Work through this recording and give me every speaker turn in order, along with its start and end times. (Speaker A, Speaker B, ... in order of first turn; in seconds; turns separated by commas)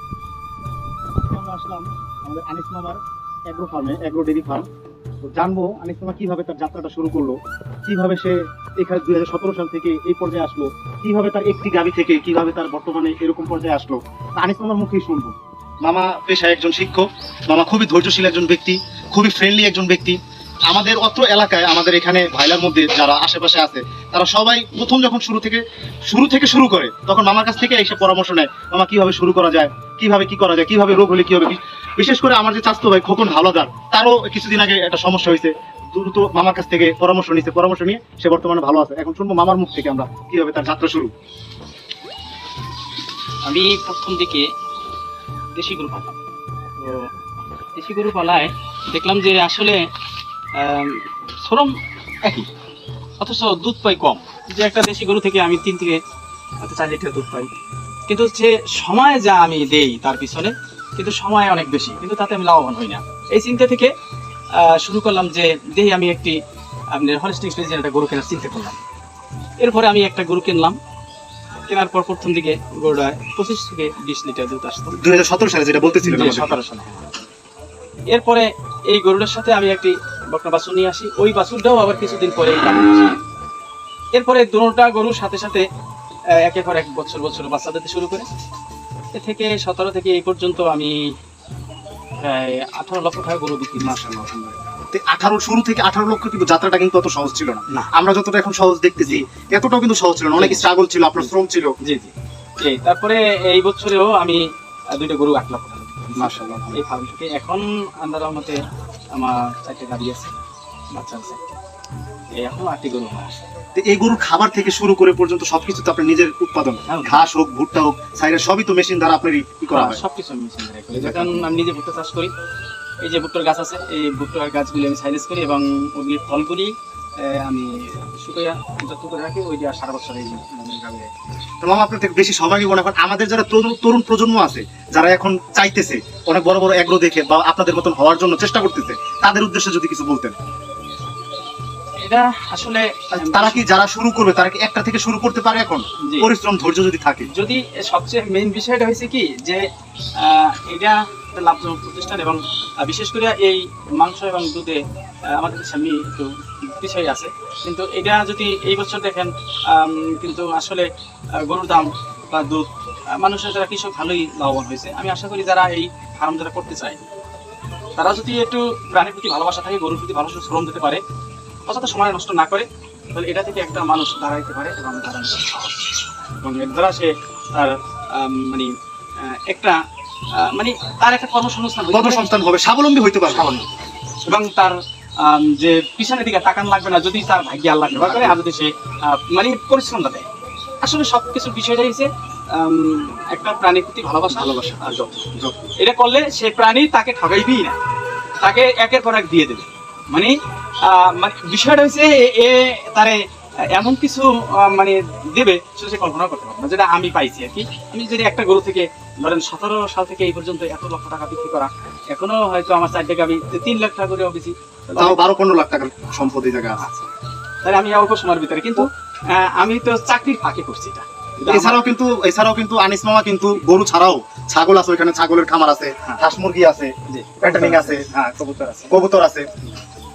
Speaker A: 1.2-4.7, Speaker A: 5.2-20.2, Speaker A: 20.7-41.1, Speaker B: 43.4-44.5, Speaker B: 45.5-46.2, Speaker B: 46.8-47.1, Speaker B: 47.7-49.9, Speaker B: 50.5-52.5, Speaker B: 53.2-56.0, Speaker B: 56.6-57.5, Speaker B: 58.1-63.9, Speaker B: 64.5-66.4, Speaker B: 66.9-68.8, Speaker B: 69.6-70.8, Speaker B: 71.7-75.0, Speaker A: 75.0-76.5, Speaker B: 75.8-77.0, Speaker B: 78.1-83.2, Speaker B: 84.1-85.7, Speaker B: 86.3-88.3, Speaker B: 89.1-91.1, Speaker B: 92.2-94.5, Speaker A: 93.8-94.4, Speaker A: 94.9-101.7, Speaker B: 100.3-100.6, Speaker B: 101.2-108.6, Speaker A: 106.2-106.8, Speaker B: 109.1-110.3, Speaker B: 110.9-111.5, Speaker B: 112.3-113.4, Speaker A: 113.8-120.0, Speaker B: 116.9-117.3, Speaker B: 119.7-122.3, Speaker A: 120.9-121.5, Speaker B: 123.0-131.1, Speaker A: 131.6-140.3, Speaker B: 142.0-143.7, Speaker A: 143.1-147.3, Speaker B: 146.0-146.3, Speaker B: 147.3-167.1, Speaker B: 168.0-171.0, Speaker B: 171.7-179.8, Speaker B: 180.3-182.3, Speaker A: 181.9-183.5, Speaker B: 183.3-190.3, Speaker A: 187.9-188.4, Speaker B: 190.8-197.8, Speaker A: 194.3-195.7, Speaker B: 198.4-215.3, Speaker A: 214.9-216.8, Speaker B: 216.7-217.1, Speaker B: 217.6-221.9, Speaker A: 221.4-228.1, Speaker B: 227.1-229.0, Speaker A: 228.9-229.5